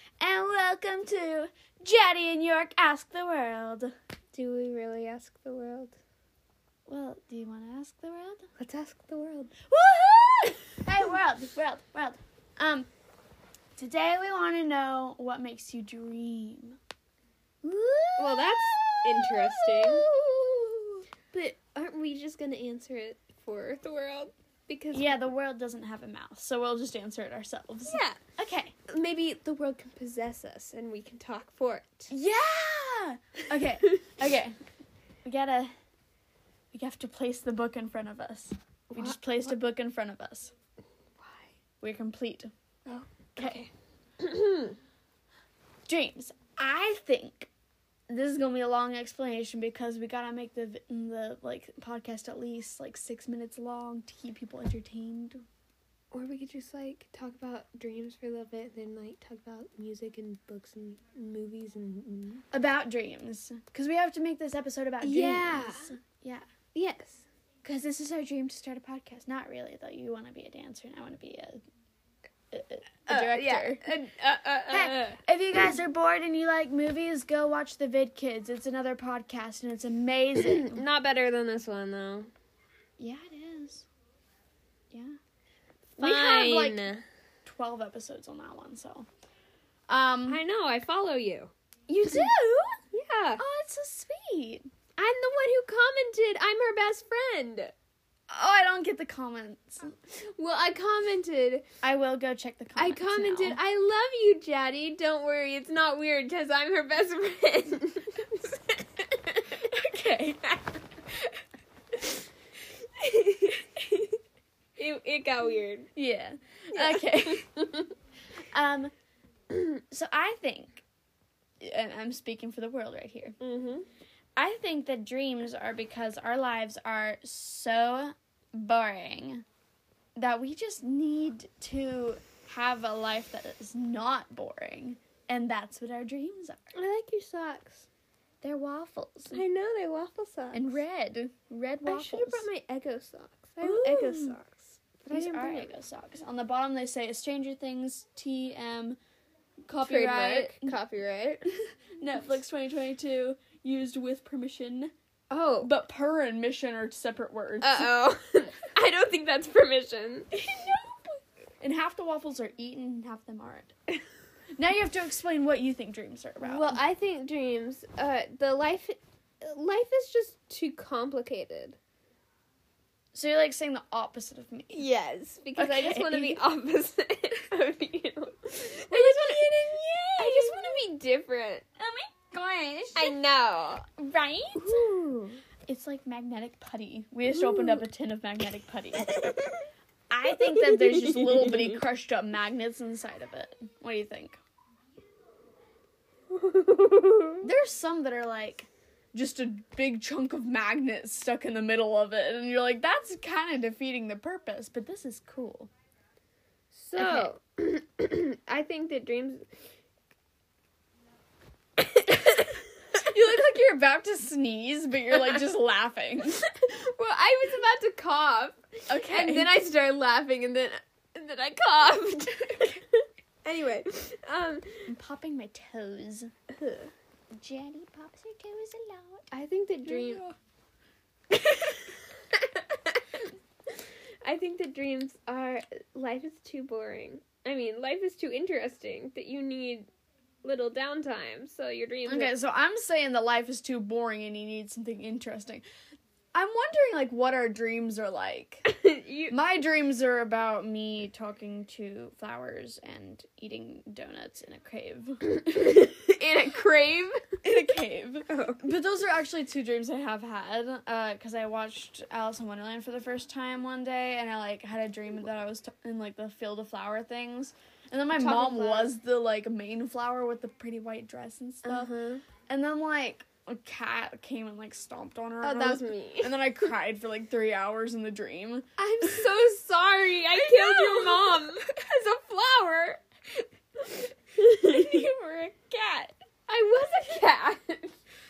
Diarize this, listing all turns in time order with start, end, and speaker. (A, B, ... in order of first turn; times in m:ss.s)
0:00.2-0:03.9 A
0:04.3-0:06.0 B
0:06.9-0:08.5 A
0:08.6-0:09.5 B
0:09.7-0:12.9 A
0:13.8-0:16.8 A
0:17.6-0:21.0 A
0:18.2-0:20.1 B
0:21.3-0:25.2 B
0:24.9-0:28.7 A
0:27.8-0:28.2 B
0:28.9-0:32.1 B
0:32.1-0:34.6 A
0:35.2-0:35.7 A
0:36.7-0:40.5 A
0:38.9-0:39.5 B
0:41.2-0:41.5 B
0:41.8-0:42.5 A
0:42.8-0:43.7 B
0:43.4-0:43.6 A
0:44.2-0:44.7 B
0:45.9-0:47.5 A
0:48.1-0:55.4 A
0:56.1-1:02.4 B
1:02.5-1:06.4 A
1:05.0-1:05.9 B
1:06.7-1:07.3 B
1:07.6-1:11.6 A
1:12.5-1:13.8 A
1:13.0-1:15.2 B
1:14.7-1:20.8 A
1:20.5-1:22.3 B
1:23.0-1:23.9 A
1:24.9-1:25.2 A
1:26.0-1:27.0 B
1:26.0-1:26.8 A
1:27.4-1:29.1 A
1:29.9-1:30.4 A
1:30.3-1:33.4 B
1:32.0-1:32.4 A
1:33.4-1:34.6 A
1:35.0-1:37.7 B
1:38.3-1:40.0 A
1:40.3-1:41.6 B
1:41.8-1:43.6 A
1:42.8-1:49.7 B
1:49.7-1:50.5 A
1:52.9-1:54.1 B
1:54.8-1:55.9 B
1:56.0-1:57.4 A
1:56.7-1:57.9 B
1:58.5-1:58.9 A
1:59.9-2:00.8 A
2:01.6-2:03.4 A
2:03.4-2:03.8 B
2:04.4-2:09.4 A
2:10.2-2:16.7 A
2:16.7-2:17.8 B
2:18.4-2:19.4 A
2:19.3-2:20.8 B
2:20.5-2:22.5 A
2:21.8-2:25.7 B
2:23.6-2:24.4 A
2:25.1-2:29.0 A
2:29.6-2:30.8 A
2:29.7-2:31.5 B
2:32.0-2:34.9 A
2:35.3-2:35.7 B
2:35.6-2:37.9 A
2:37.6-2:40.3 B
2:40.3-2:44.0 A
2:44.6-2:46.8 A
2:46.4-2:51.8 B
2:53.1-2:54.9 A
2:54.7-3:01.6 B
2:55.6-2:56.4 A
2:58.9-3:00.8 A
3:01.8-3:03.2 A
3:02.9-3:05.4 B
3:04.0-3:05.0 A
3:05.7-3:09.2 A
3:09.1-3:09.6 B
3:10.1-3:14.4 A
3:10.3-3:11.8 B
3:16.3-3:17.4 B
3:17.4-3:25.7 A
3:26.7-3:29.5 B
3:27.0-3:27.3 A
3:31.8-3:32.6 B
3:33.0-3:36.4 A
3:36.5-3:44.9 B
3:38.9-3:39.5 A
3:42.5-3:42.8 A
3:44.9-3:46.3 A
3:46.6-3:46.9 B
3:47.3-3:49.3 A
3:49.3-3:50.3 B
3:49.8-3:50.3 A
3:51.3-3:53.3 B
3:54.2-3:59.9 B
4:00.4-4:02.3 B
4:02.0-4:05.6 A
4:06.3-4:08.7 A
4:08.7-4:09.4 B
4:09.3-4:31.9 A
4:15.8-4:16.6 B
4:18.3-4:18.6 B
4:28.1-4:28.9 B
4:31.6-4:32.2 B
4:32.5-4:39.3 A
4:35.4-4:36.4 B
4:38.8-4:43.0 B
4:40.3-4:41.7 A
4:43.8-4:45.1 B
4:44.6-4:46.1 A
4:46.5-4:47.9 B